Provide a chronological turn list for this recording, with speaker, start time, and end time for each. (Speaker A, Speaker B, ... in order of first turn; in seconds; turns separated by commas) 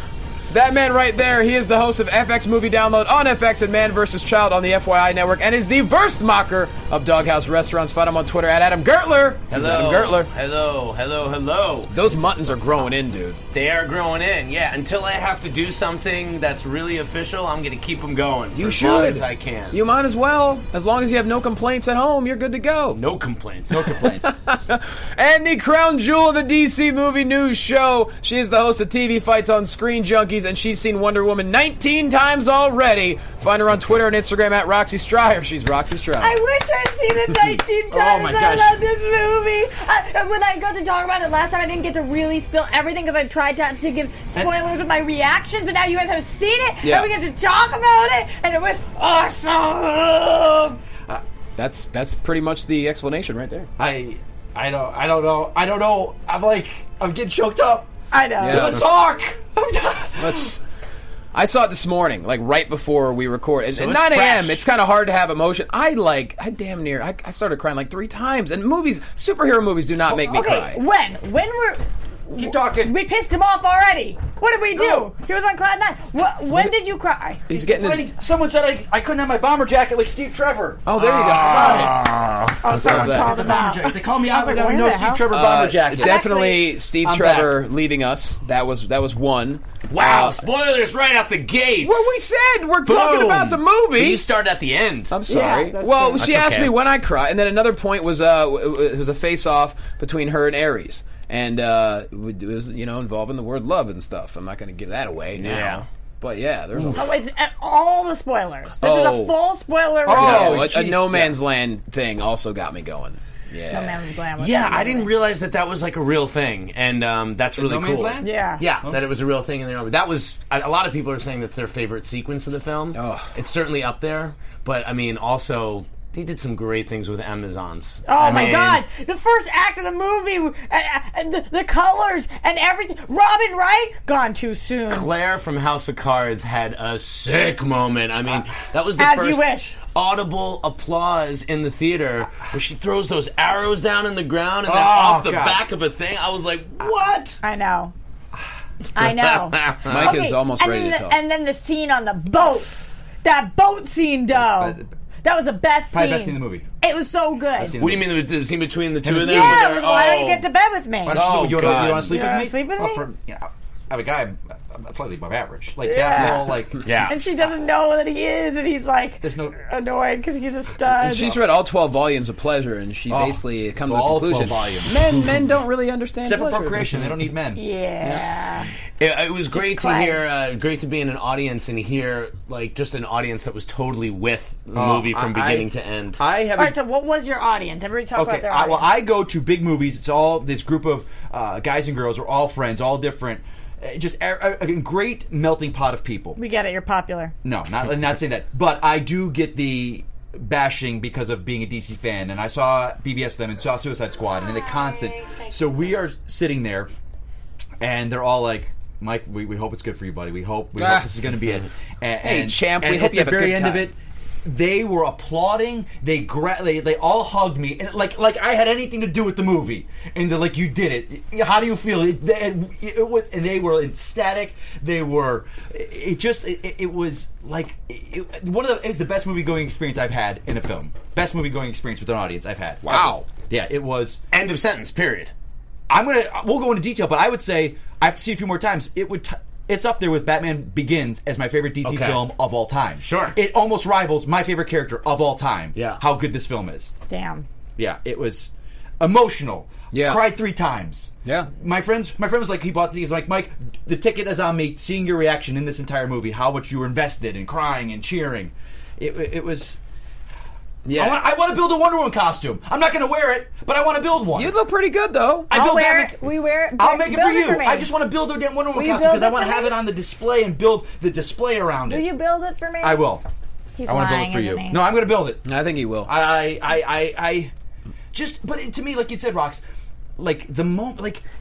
Speaker A: 0.5-10.3, Speaker B: 9.5-11.9, Speaker A: 11.9-13.4, Speaker B: 13.5-19.8, Speaker A: 18.5-23.0, Speaker B: 22.9-23.9, Speaker C: 23.7-24.6, Speaker A: 24.0-36.4, Speaker D: 36.2-50.8, Speaker C: 37.9-38.8, Speaker A: 46.8-47.1, Speaker A: 51.6-53.7, Speaker C: 53.8-57.9, Speaker D: 58.1-58.8, Speaker A: 58.4-58.8, Speaker C: 58.4-60.6, Speaker A: 60.2-60.6, Speaker A: 61.3-70.8, Speaker B: 63.7-64.6, Speaker D: 70.1-77.5, Speaker C: 72.3-72.9, Speaker C: 74.7-75.1, Speaker A: 77.5-78.1, Speaker C: 77.5-82.0, Speaker A: 80.9-83.5, Speaker B: 81.0-83.1, Speaker D: 82.6-85.3, Speaker C: 82.8-86.2, Speaker A: 85.3-90.4, Speaker D: 85.9-86.7, Speaker C: 87.0-87.6, Speaker B: 89.9-92.1, Speaker A: 91.8-94.3, Speaker B: 92.8-95.2, Speaker A: 95.1-107.1, Speaker D: 95.3-96.3, Speaker B: 96.2-96.7, Speaker B: 105.4-105.8, Speaker D: 106.9-110.6, Speaker A: 108.8-109.3, Speaker C: 110.0-111.4, Speaker A: 110.2-114.0, Speaker B: 110.2-110.6, Speaker D: 113.7-115.1, Speaker B: 114.4-128.8, Speaker C: 117.5-119.0, Speaker D: 118.2-118.6, Speaker A: 122.9-123.3, Speaker D: 128.1-135.1, Speaker B: 134.9-147.4, Speaker D: 139.0-139.8, Speaker C: 144.6-145.6, Speaker D: 147.4-147.9, Speaker D: 148.9-152.7, Speaker B: 149.0-150.1, Speaker A: 149.9-151.2, Speaker D: 153.2-157.8, Speaker C: 154.3-154.9, Speaker C: 155.9-156.7, Speaker C: 157.6-158.2, Speaker B: 157.8-160.4, Speaker C: 159.0-159.7, Speaker D: 159.2-163.1, Speaker C: 161.1-166.8, Speaker B: 161.1-162.2, Speaker D: 165.8-171.3, Speaker B: 166.8-167.2, Speaker C: 169.2-169.6, Speaker A: 171.0-177.0, Speaker C: 173.1-175.3, Speaker C: 176.2-177.6, Speaker D: 177.5-178.7, Speaker B: 179.0-186.2, Speaker D: 179.5-180.2, Speaker C: 184.7-186.8, Speaker D: 186.6-188.9, Speaker C: 188.1-196.4, Speaker D: 196.3-197.3, Speaker C: 197.4-206.9, Speaker D: 204.3-205.5, Speaker C: 207.8-234.2, Speaker A: 210.8-211.1, Speaker A: 212.2-213.9, Speaker B: 234.3-235.3, Speaker C: 235.9-246.9, Speaker B: 241.8-242.3, Speaker B: 243.0-243.4, Speaker B: 245.7-246.0, Speaker D: 247.1-247.4, Speaker C: 247.8-259.8, Speaker A: 249.9-250.2, Speaker A: 251.2-251.5, Speaker A: 260.8-261.2, Speaker C: 260.9-264.5, Speaker A: 264.3-265.5, Speaker C: 265.5-266.2, Speaker D: 265.5-267.9, Speaker C: 266.8-272.1, Speaker D: 268.7-269.8, Speaker D: 271.9-273.1, Speaker C: 272.8-273.2, Speaker D: 273.8-274.8, Speaker C: 273.9-275.5, Speaker A: 275.4-276.1, Speaker C: 276.0-277.5, Speaker C: 278.1-279.6, Speaker C: 280.2-281.2